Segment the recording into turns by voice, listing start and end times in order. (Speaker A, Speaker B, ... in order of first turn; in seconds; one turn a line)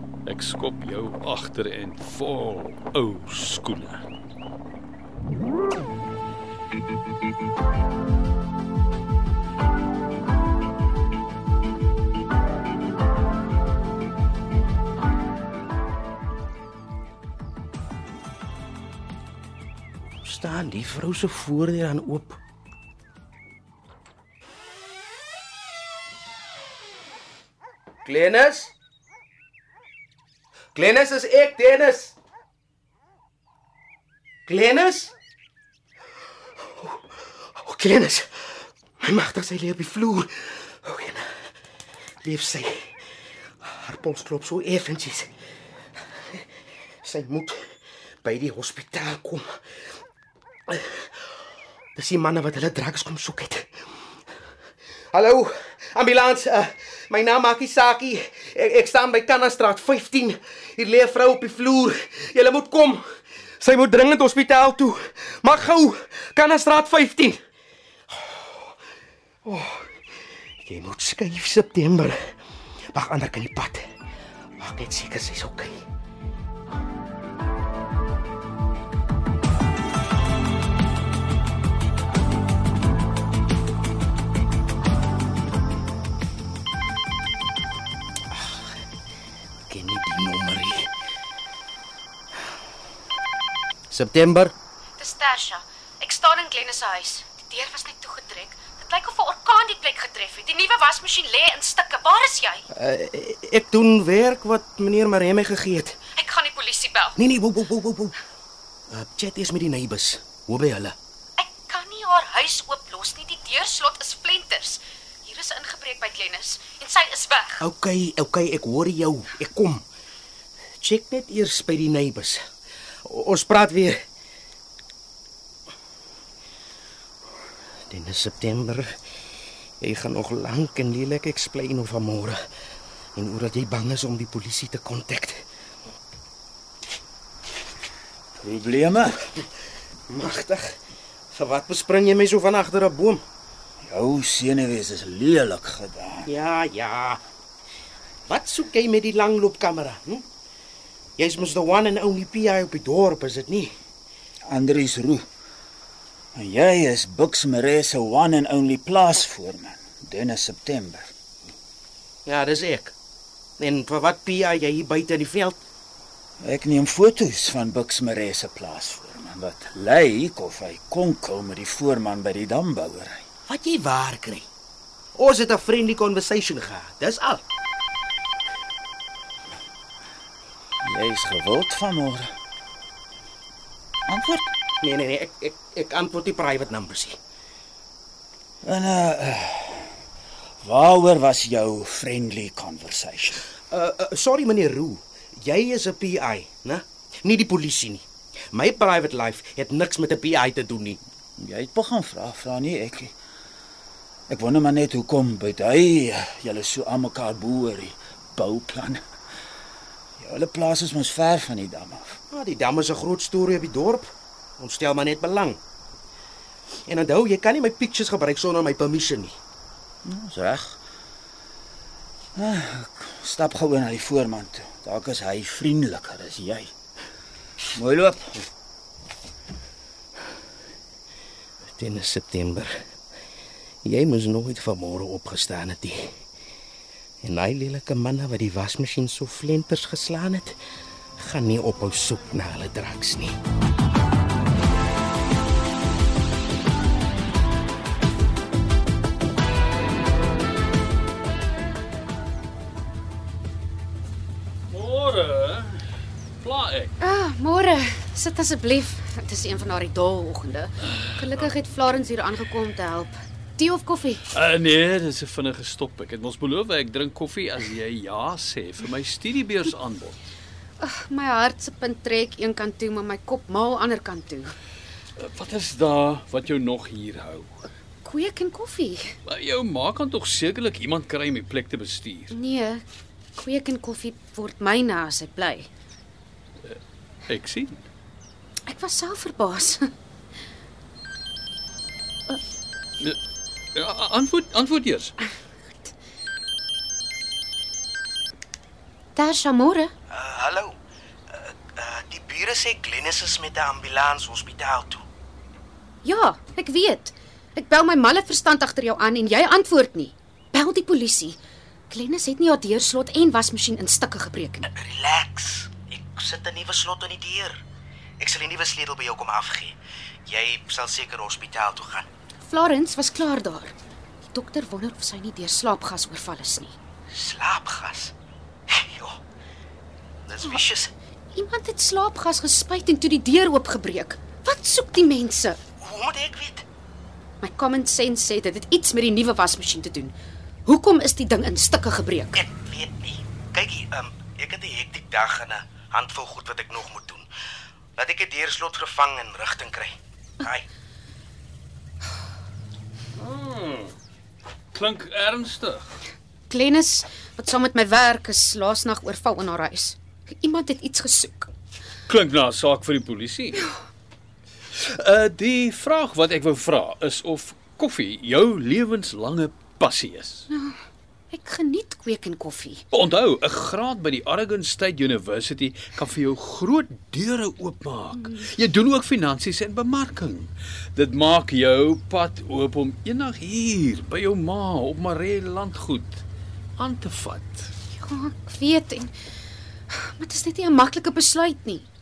Speaker A: 0.2-4.0
Speaker B: 20.2-22.4
Speaker B: 28.0-28.7
Speaker B: 30.7-32.1
Speaker B: 34.5-35.1
Speaker B: 36.6-41.4
Speaker B: 42.2-43.0
Speaker B: 43.6-45.3
Speaker B: 47.0-47.7
Speaker B: 48.2-49.6
Speaker B: 50.7-51.1
Speaker B: 52.0-53.8
Speaker B: 55.1-63.0
Speaker B: 63.6-67.4
Speaker B: 68.2-68.7
Speaker B: 69.4-70.0
Speaker B: 70.6-72.3
Speaker B: 72.9-73.8
Speaker B: 74.6-75.8
Speaker B: 88.3-88.6
Speaker B: 89.7-90.9
Speaker B: 93.9-94.5
Speaker C: 95.0-102.6
Speaker B: 102.7-106.0
Speaker C: 106.1-107.2
Speaker B: 107.2-108.1
Speaker B: 108.9-111.0
Speaker C: 111.4-117.6
Speaker B: 117.6-119.8
Speaker B: 120.8-122.4
Speaker B: 123.0-124.0
Speaker B: 127.9-128.9
Speaker B: 129.8-132.4
Speaker B: 133.2-135.4
Speaker D: 138.4-139.2
Speaker B: 140.1-140.8
Speaker B: 141.3-143.2
Speaker D: 143.8-146.3
Speaker B: 146.2-147.2
Speaker B: 148.3-150.2
Speaker B: 151.2-153.7
Speaker D: 154.5-155.2
Speaker D: 156.3-161.1
Speaker B: 162.2-162.9
Speaker B: 163.6-165.6
Speaker D: 166.4-173.2
Speaker B: 173.5-174.5
Speaker B: 175.1-177.4
Speaker D: 180.8-182.3
Speaker D: 184.1-184.5
Speaker B: 184.8-187.2
Speaker D: 188.6-189.9
Speaker D: 190.6-193.4
Speaker B: 193.7-201.0
Speaker D: 201.4-203.1
Speaker D: 204.3-209.0
Speaker D: 210.2-212.2
Speaker B: 212.3-215.6
Speaker B: 216.8-219.3
Speaker D: 220.0-220.8
Speaker D: 222.3-226.7
Speaker D: 227.7-228.4
Speaker B: 231.7-232.8
Speaker B: 233.8-236.2
Speaker B: 237.2-240.6
Speaker B: 241.2-243.4
Speaker A: 254.7-257.0
Speaker C: 257.0-264.3
Speaker A: 264.3-270.2
Speaker C: 270.8-274.5
Speaker A: 275.2-277.6
Speaker C: 278.0-279.2
Speaker A: 279.2-282.3
Speaker C: 282.3-282.8
Speaker C: 283.4-285.7
Speaker A: 286.6-287.9
Speaker C: 288.7-289.9
Speaker A: 293.7-295.1
Speaker C: 299.1-299.9
Speaker B: 300.1-300.8
Speaker B: 301.3-305.0
Speaker C: 306.0-311.4
Speaker C: 311.9-314.7
Speaker B: 314.7-317.6
Speaker B: 318.2-319.8
Speaker B: 320.3-322.1
Speaker C: 322.4-323.7
Speaker C: 324.3-326.7
Speaker B: 327.1-328.1
Speaker B: 328.7-329.2
Speaker B: 330.3-330.9
Speaker C: 331.3-335.6
Speaker B: 335.8-336.6
Speaker C: 337.4-340.1
Speaker C: 340.6-342.4
Speaker B: 342.3-347.3
Speaker B: 348.0-350.7
Speaker A: 353.2-353.9
Speaker A: 354.7-356.0
Speaker C: 356.5-361.5
Speaker A: 362.1-363.7
Speaker A: 364.7-370.5
Speaker C: 370.5-370.8
Speaker C: 371.3-372.8
Speaker A: 372.9-386.2
Speaker A: 386.8-387.7
Speaker C: 387.9-389.1
Speaker C: 389.9-391.9